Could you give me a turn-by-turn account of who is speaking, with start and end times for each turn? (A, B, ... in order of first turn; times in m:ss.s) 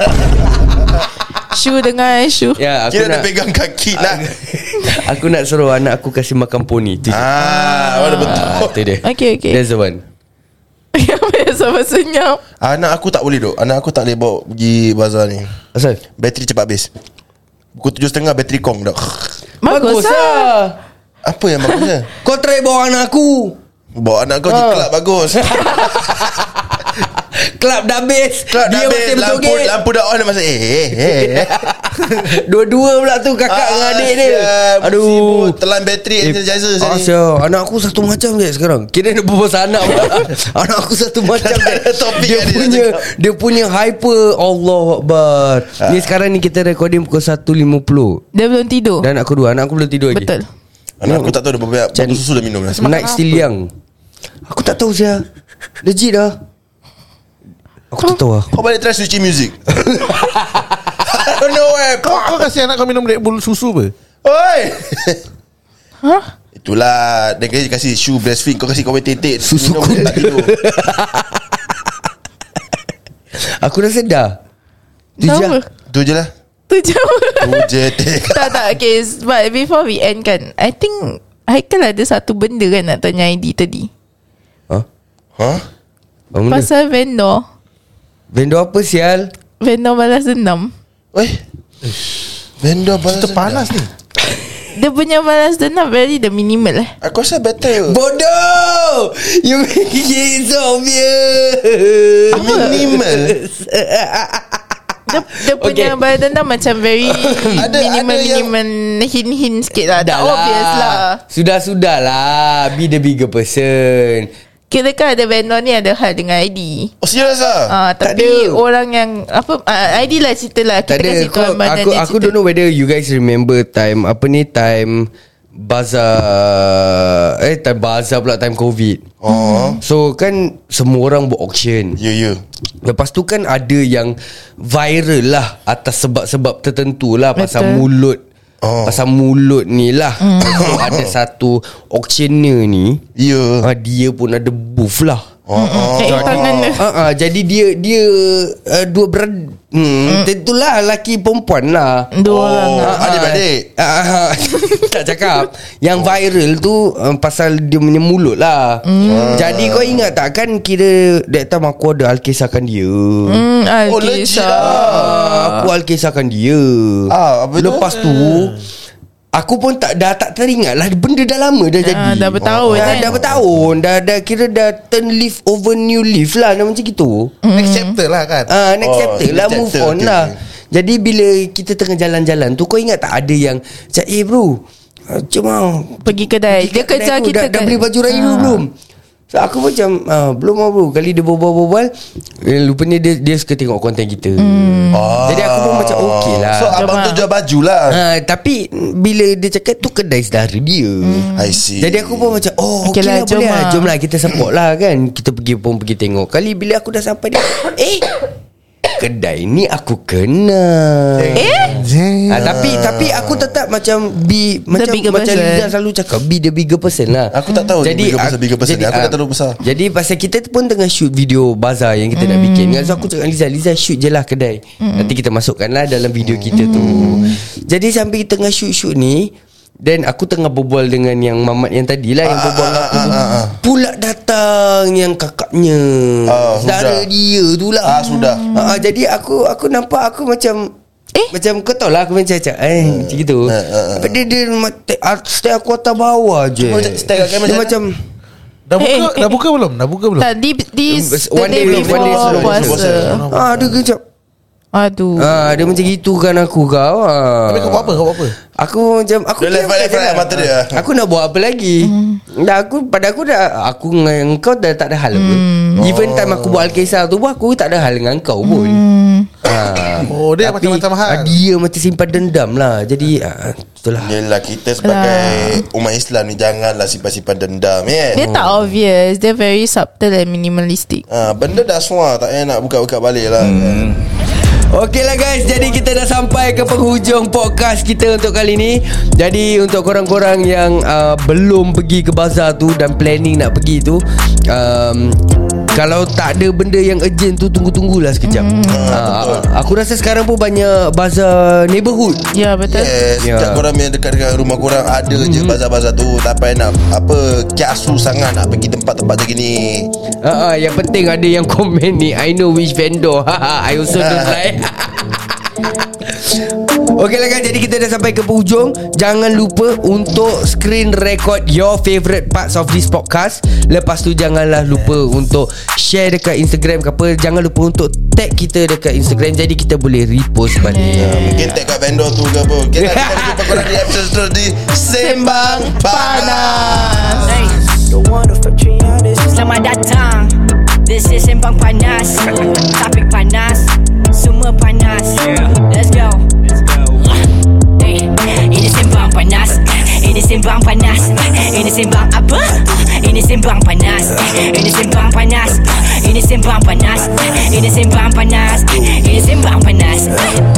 0:01.4-0:02.6 A
0:02.6-0:03.3 B
0:02.9-0:04.3 C
0:04.0-0:07.4 B
0:07.1-0:08.8 C
0:07.4-0:09.6 A
0:08.2-0:10.0 B
0:10.9-0:12.4 A
0:12.6-0:15.5 C
0:15.7-0:16.0 B
0:16.2-0:16.9 C
0:17.7-0:19.3 C
0:19.6-0:20.5 A
0:19.7-0:20.7 B
0:21.2-0:22.1 C
0:22.2-0:23.6 B
0:24.0-0:26.2 C
0:24.5-0:29.7 B
0:28.5-0:31.7 C
0:30.9-0:35.6 B
0:33.5-0:37.1 C
0:36.2-0:48.2 B
0:41.4-0:43.0 C
0:45.8-0:46.1 C
0:48.3-0:49.1 A
0:49.0-0:50.3 B
0:50.1-0:50.5 A
0:51.0-0:52.9 C
0:51.0-0:51.3 B
0:52.0-0:52.2 B
0:52.7-0:53.5 D
0:52.7-0:53.7 B
0:54.5-0:55.2 B
0:55.8-0:56.4 B
0:57.9-0:58.5 B
0:58.5-0:59.6 C
0:59.9-1:00.7 B
1:01.0-1:02.4 C
1:02.0-1:03.9 D
1:04.2-1:05.2 C
1:06.0-1:06.3 A
1:06.6-1:10.5 C
1:09.4-1:11.9 B
1:13.3-1:14.4 B
1:15.2-1:15.7 A
1:15.2-1:15.6 B
1:15.9-1:16.3 C
1:16.7-1:23.9 A
1:17.4-1:18.6 C
1:25.4-1:25.6 C
1:26.3-1:26.7 B
1:26.5-1:27.5 A
1:28.3-1:29.3 B
1:29.6-1:30.7 A
1:31.1-1:31.4 C
1:32.6-1:33.7 C
1:33.1-1:33.9 D
1:34.7-1:37.0 A
1:37.0-1:38.0 C
1:37.8-1:46.0 B
1:42.3-1:42.7 A
1:42.3-1:43.3 C
1:45.1-1:51.2 A
1:47.0-1:47.6 B
1:47.6-1:48.5 C
1:50.0-1:54.3 B
1:54.7-1:56.9 A
1:57.0-1:57.7 C
1:57.7-2:02.3 A
1:58.0-1:58.6 B
2:00.9-2:09.1 B
2:09.2-2:09.8 C
2:09.3-2:09.8 A
2:09.8-2:12.0 B
2:12.0-2:12.4 C
2:12.8-2:18.2 B
2:17.4-2:17.8 A
2:18.6-2:19.0 C
2:18.8-2:23.0 B
2:20.2-2:20.8 A
2:20.4-2:21.1 C
2:23.2-2:23.7 C
2:23.6-2:25.3 B
2:25.5-2:26.8 C
2:25.6-2:26.8 A
2:26.0-2:32.1 B
2:32.1-2:33.0 A
2:32.3-2:33.7 C
2:32.8-2:43.4 B
2:38.8-2:39.4 A
2:39.0-2:40.1 C
2:43.3-2:45.7 A
2:43.9-2:45.1 C
2:44.6-2:48.6 B
2:47.1-2:48.0 C
2:47.9-2:48.6 D
2:49.3-2:57.3 B
2:51.8-2:53.1 A
2:52.4-2:53.7 C
2:57.4-2:58.0 A
2:57.5-2:58.5 D
2:58.5-3:08.7 B
2:58.8-3:00.3 C
3:06.0-3:08.6 A
3:09.3-3:16.8 B
3:14.4-3:15.2 A
3:14.9-3:18.0 C
3:16.7-3:17.2 A
3:17.9-3:28.1 B
3:21.0-3:21.6 A
3:21.4-3:22.4 C
3:22.8-3:23.9 A
3:29.0-3:31.7 B
3:31.2-3:31.5 C
3:31.2-3:32.7 D
3:31.4-3:31.8 A
3:32.3-4:00.7 B
3:32.4-3:33.5 C
3:34.7-3:35.7 A
3:37.3-3:39.6 C
3:42.2-3:43.1 A
3:44.8-3:45.1 A
3:46.2-3:47.4 C
3:46.5-3:47.3 A
3:52.2-3:53.6 C
3:53.0-3:53.4 A
3:56.3-3:57.1 C
3:57.8-3:58.4 C
3:58.0-3:58.9 A
4:01.3-4:08.0 B
4:02.8-4:04.2 C
4:06.6-4:07.8 C
4:08.7-4:10.3 D
4:08.8-4:09.4 A
4:10.2-4:13.2 A
4:10.9-4:14.0 B
4:11.5-4:13.2 C
4:12.3-4:13.8 D
4:14.7-4:15.3 A
4:15.2-4:18.0 B
4:17.4-4:18.3 D
4:18.6-4:28.8 B
4:19.4-4:20.8 C
4:21.8-4:22.2 A
4:25.1-4:25.8 A
4:25.8-4:26.8 C
4:28.4-4:29.3 A
4:29.4-4:34.1 B
4:30.0-4:31.4 D
4:34.0-4:38.2 C
4:34.8-4:35.6 A
4:38.1-4:41.0 A
4:38.1-4:38.6 B
4:41.1-4:44.0 C
4:44.5-4:55.2 B
4:55.7-5:02.2 B
4:58.2-4:59.0 A
4:58.7-4:59.4 C
5:02.3-5:02.9 A
5:02.7-5:09.9 C
5:03.2-5:03.6 B
5:05.1-5:05.6 B
5:10.2-5:15.2 B
5:14.0-5:14.4 C
5:15.8-5:31.4 B
5:30.6-5:31.6 A
5:31.0-5:37.5 C
5:32.8-5:33.9 B
5:35.0-5:37.6 A
5:37.3-5:46.3 E
5:47.7-6:00.4 E